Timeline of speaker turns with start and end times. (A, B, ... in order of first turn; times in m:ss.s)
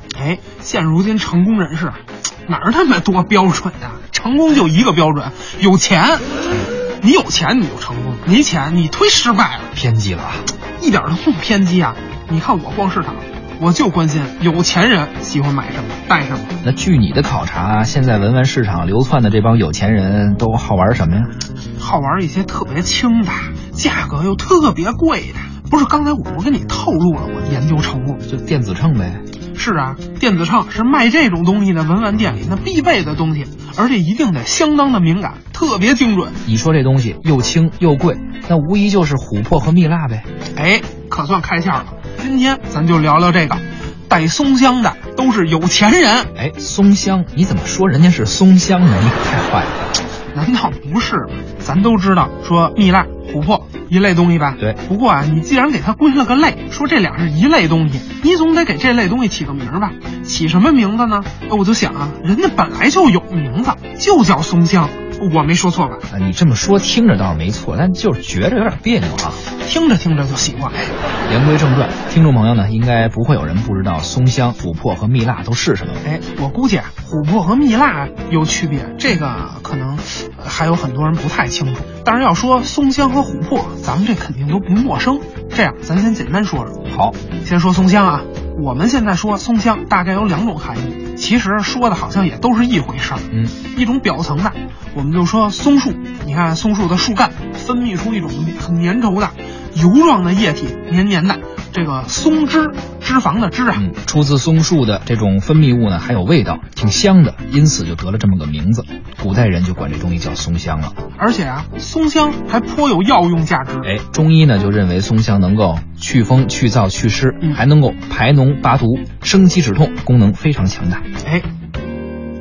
0:00.1-0:06.3 A
0:07.0-0:09.7 A
0:09.7-0:10.5 B
0:10.8-0:16.6 A
0:16.6-0:21.3 B
0:21.8-0:28.2 A
0:28.3-0:29.2 B
0:29.5-0:36.4 A
0:36.4-0:40.3 B
0:40.5-0:46.3 A
0:46.4-0:49.8 B
0:50.3-1:06.0 A
1:06.1-1:09.4 B
1:09.5-1:11.0 A
1:11.3-1:16.0 B
1:16.0-1:26.8 A
1:26.9-1:27.2 B
1:27.4-1:43.8 A
1:43.7-1:51.0 B
1:51.2-1:53.9 A
1:53.8-2:01.0 B